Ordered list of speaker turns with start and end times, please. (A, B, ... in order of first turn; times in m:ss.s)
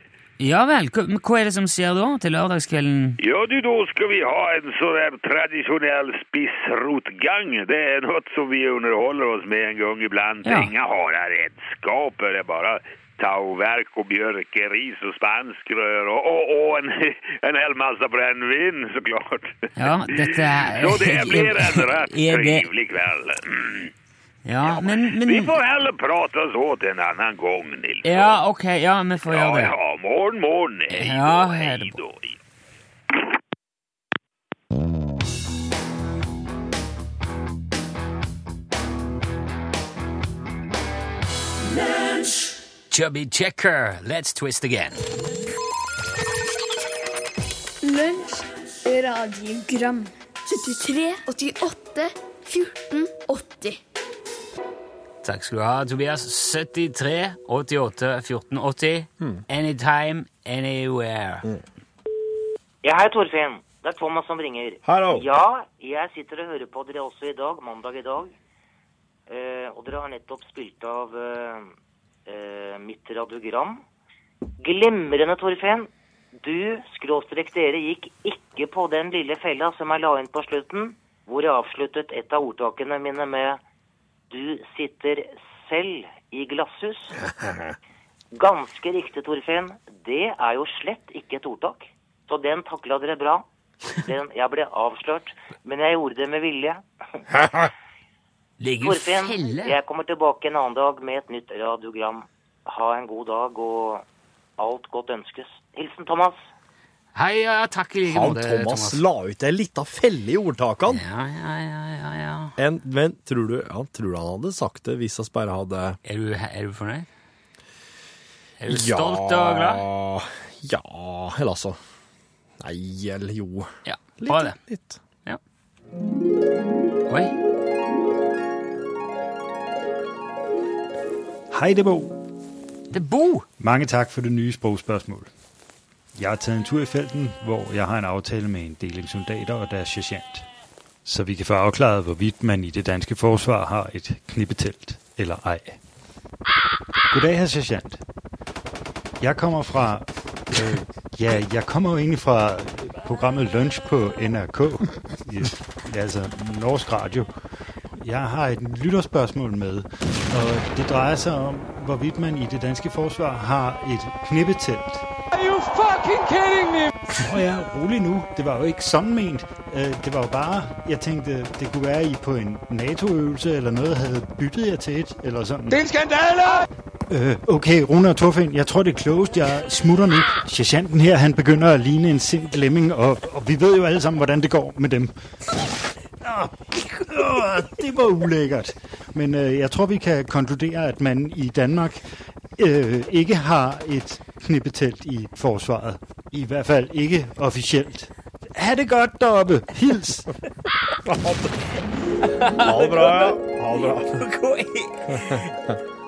0:00.4-0:03.2 A
0:03.2-0:23.9 B
0:10.4-0:10.7 A
0:19.8-0:22.7 A
0:24.5-0:25.5 A
0:24.6-0:28.4 B
0:28.0-0:29.7 A
0:29.3-0:32.4 B
0:30.9-0:32.0 A
0:42.9-0:45.0 A
0:47.8-0:53.8 C
0:55.2-1:01.5 A
1:02.8-1:08.3 D
1:04.8-1:05.3 E
1:09.3-1:11.7 D
1:12.3-1:13.8 D
1:14.6-1:15.9 D
1:16.4-1:23.6 D
1:24.3-1:27.2 D
1:28.3-1:36.8 D
1:38.6-1:39.8 A
1:38.8-1:44.0 D
1:44.6-1:46.4 D
1:47.2-1:49.0 A
1:48.1-1:51.0 E
1:50.9-1:52.6 A
1:52.6-1:56.0 E
1:56.0-1:57.1 A
1:58.6-1:59.8 A
1:58.7-2:01.8 E
2:02.6-2:05.0 E
2:03.8-2:04.6 A
2:07.1-2:07.3 A
2:11.5-2:12.2 F
2:12.9-2:13.5 A
2:13.6-2:15.3 F
2:16.2-2:20.4 F
2:21.0-2:25.8 F
2:27.1-2:28.0 F
2:29.2-2:37.3 F
2:38.0-2:45.0 F
2:47.2-2:55.8 F
2:57.1-3:05.1 F
3:06.2-3:12.0 F
3:12.6-3:20.3 F
3:21.1-3:21.5 E
3:22.2-3:25.5 A
3:22.5-3:24.2 E